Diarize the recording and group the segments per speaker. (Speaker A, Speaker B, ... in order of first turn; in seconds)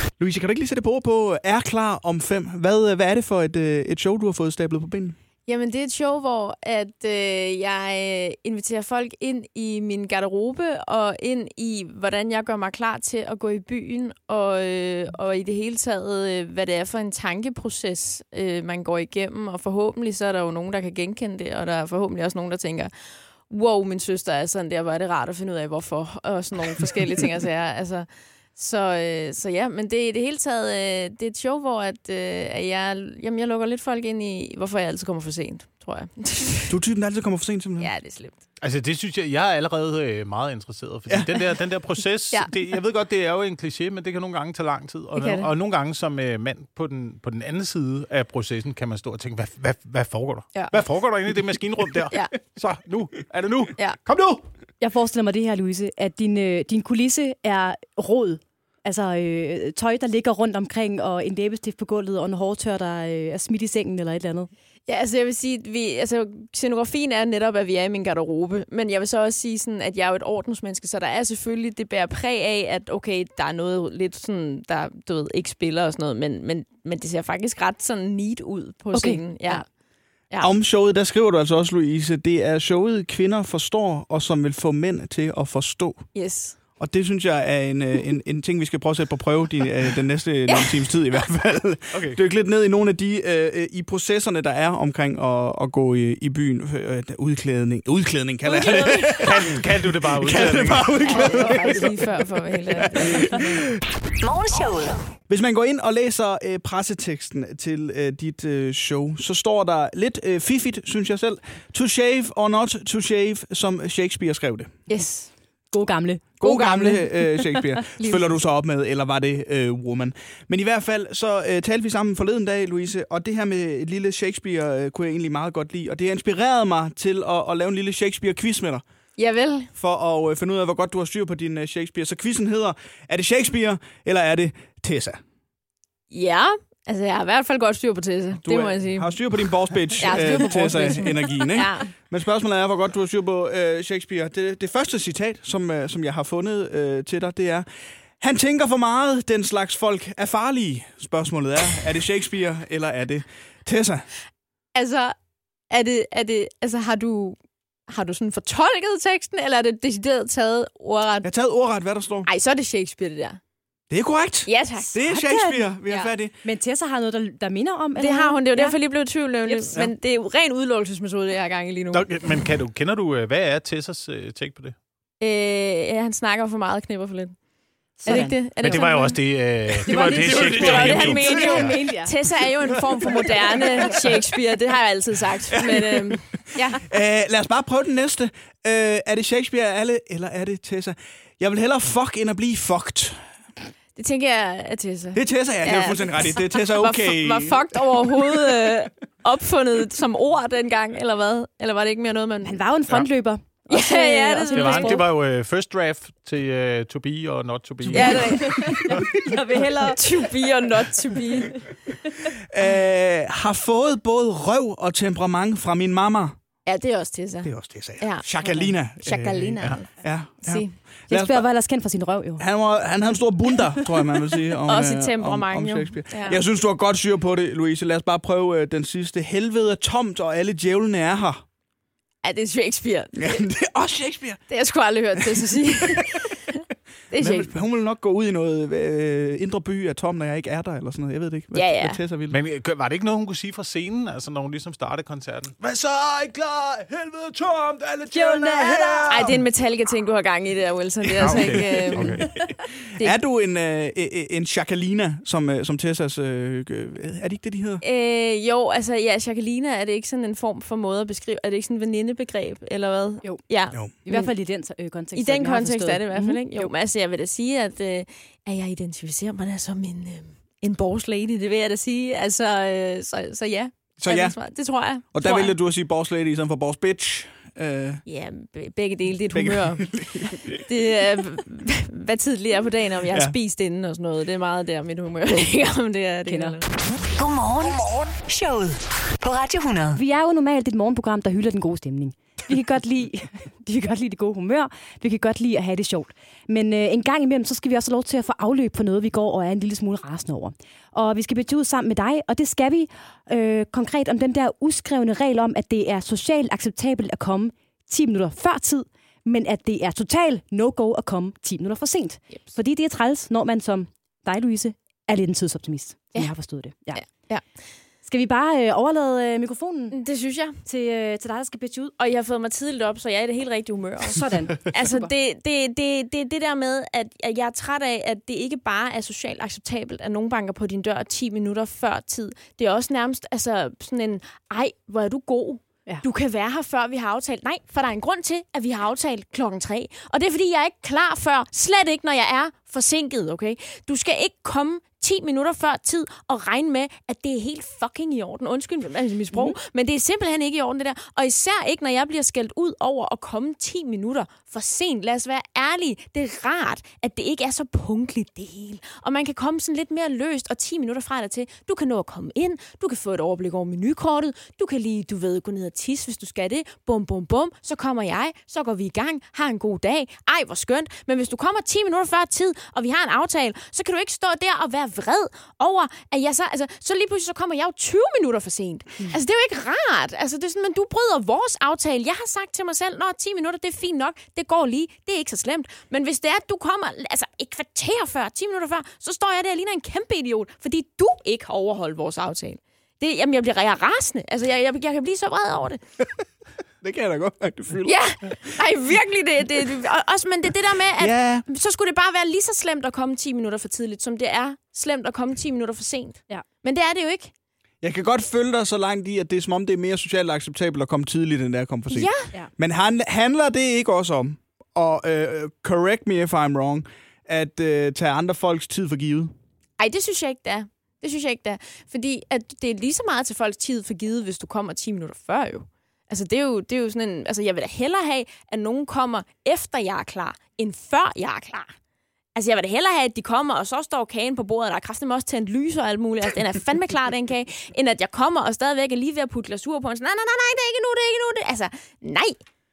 Speaker A: 0.2-5.2, 36.7-37.9, 41.1-41.4, 80.4-86.1, 86.8-103.7, 105.3-114.8, 116.4-128.8, 129.8-135.2, 138.4-147.7, 148.2-154.1, 161.2-162.3, 163.9-166.4, 179.9-181.4, 185.5-193.3, 195.1-198.8, 207.8-209.0, 212.5-216.4, 217.4-221.4, 222.4-231.4, 233.2-234.4, 235.2-236.2, 237.2-242.4, 251.2-257.8, 274.0-274.4, 275.1-278.0, 279.3-280.6, 283.1-283.4, 396.8-398.6, 401.0-401.4, 407.8-419.3
Speaker B: 5.5-36.7, 37.8-38.4, 45.2-45.5, 64.9-79.7, 86.1-86.6, 90.5-90.8, 98.5-99.3, 101.0-103.6, 114.9-115.3, 129.2-129.7, 136.1-141.9, 154.7-155.2, 155.7-157.4, 157.9-161.3, 162.2-163.4, 164.5-165.0, 168.0-172.1, 175.2-177.4, 178.0-179.2, 179.8-186.8, 194.0-202.6, 203.7-205.0, 207.9-211.8, 216.7-220.8, 224.7-226.4, 232.2-233.4, 234.5-237.5, 241.5-242.0, 249.1-252.4, 257.8-264.4, 265.1-275.5, 278.1-286.7, 316.9-317.4, 319.9-320.6, 322.0-395.8, 397.9-407.3, 411.9-412.3, 419.8-431.7, 432.4-442.4
Speaker C: 38.6-54.4, 91.9-92.2, 99.0-101.7, 171.9-174.8, 178.2-181.8, 182.7-183.0, 204.5-208.8, 242.3-249.4, 251.2-252.3
Speaker D: 54.8-64.5, 78.9-79.6, 115.7-118.2, 165.0-165.7, 166.4-168.8, 169.5-169.7, 178.0-178.9, 179.9-182.2, 202.4-205.1, 208.2-210.0, 221.1-222.4, 248.1-249.2, 263.2-266.7, 286.3-286.6, 289.9-317.3, 318.1-320.0, 320.6-321.9, 324.1-325.1
Speaker E: 104.2-105.1, 287.0-290.0